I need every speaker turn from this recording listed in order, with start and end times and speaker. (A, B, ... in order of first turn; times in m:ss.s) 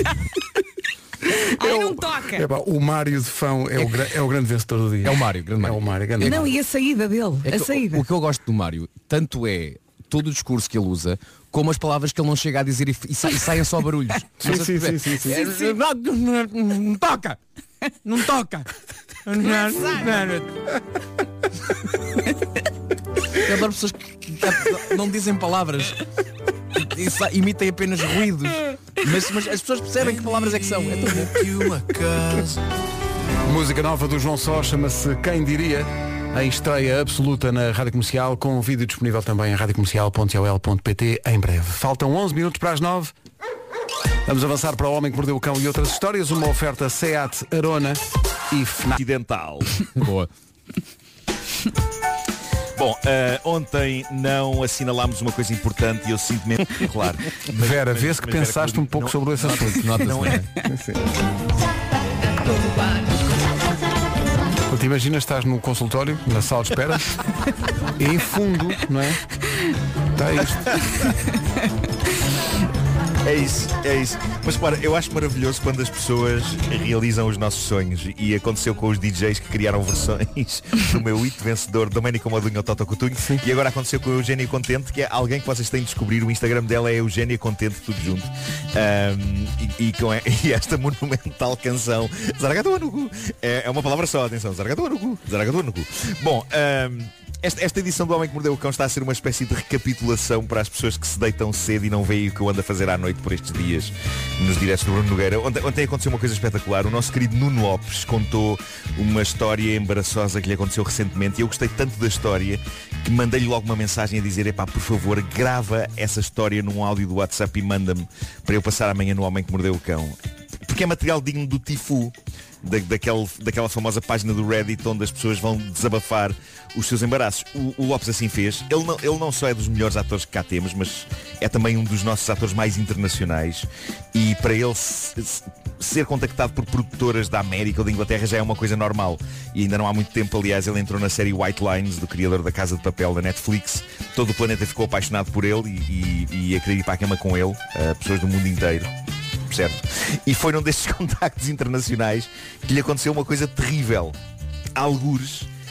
0:01.4-0:02.4 A
0:01.6-0:06.5 B
0:05.0-0:06.5 C
0:06.2-0:08.0 A
0:07.4-0:17.4 C
0:14.4-0:15.5 B
0:18.0-0:18.7 C
0:19.3-0:20.6 C
0:23.4-0:26.0 C
0:26.8-0:32.6 C
0:33.4-0:43.1 B
0:44.3-0:49.0 B
0:49.0-0:49.8 D
0:49.9-0:50.3 C
0:52.8-1:00.3 D
0:57.5-1:00.1 B
0:59.4-1:00.5 C
1:00.6-1:01.0 B
1:04.7-1:07.1 B
1:08.0-1:09.2 B
1:10.2-1:10.8 B
1:13.2-2:28.9 D
1:23.2-1:23.4 B
2:29.5-2:34.2 D
2:34.8-2:35.5 D